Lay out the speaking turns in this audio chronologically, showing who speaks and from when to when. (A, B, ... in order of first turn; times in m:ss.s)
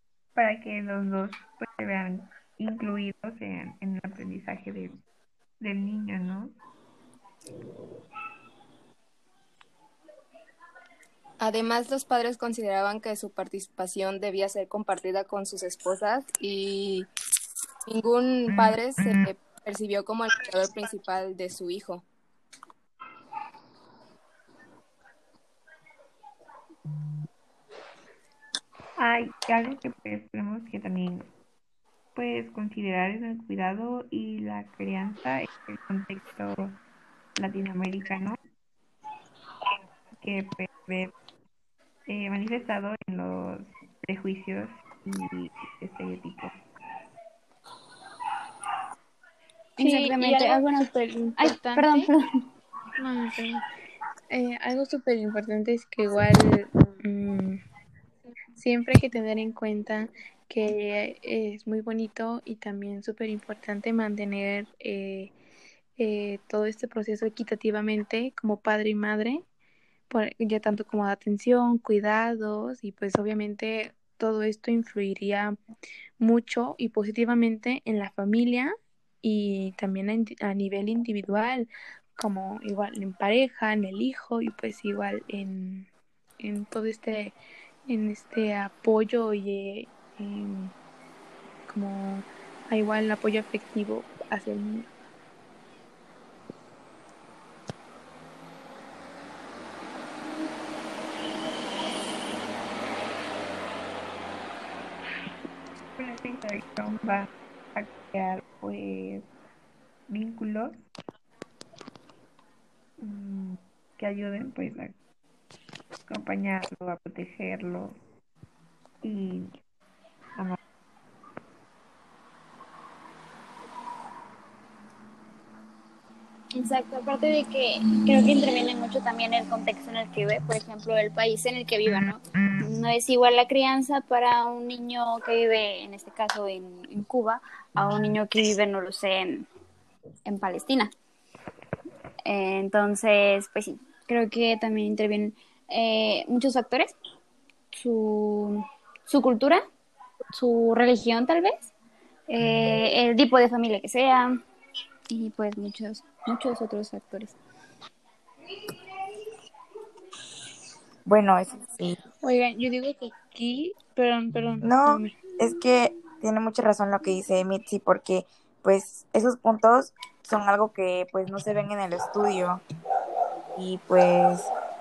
0:00.3-0:05.0 A
0:05.6-0:06.6 A
0:11.4-0:17.1 B
0:17.9-0:22.0 B
0:29.0-0:31.3 A
0:32.1-0:36.8 A
0:37.4-0:38.4 A
0:40.2-0:41.1 A
0:42.1-0:46.5 A
0:49.8-0:52.2 C
0:49.8-0:52.1 D
0:53.0-0:53.6 D
0:54.3-0:57.6 D
0:58.6-1:05.3 D
1:06.0-1:09.4 D
1:10.1-1:15.6 D
1:16.2-1:25.9 D
1:26.4-1:30.7 D
1:31.7-1:34.9 D
1:46.0-1:49.3 A
1:50.1-1:50.9 A
1:53.0-1:55.0 A
1:56.1-1:58.0 A
1:59.0-1:59.5 A
2:06.5-2:19.5 C
2:20.2-2:20.9 C
2:22.2-2:27.0 C
2:27.7-2:29.6 C
2:30.3-2:31.7 C
2:32.3-2:34.4 C
2:35.1-2:37.4 C
2:41.0-2:42.0 E
2:42.2-2:45.1 D
2:44.6-2:52.6 E
2:53.6-2:54.5 E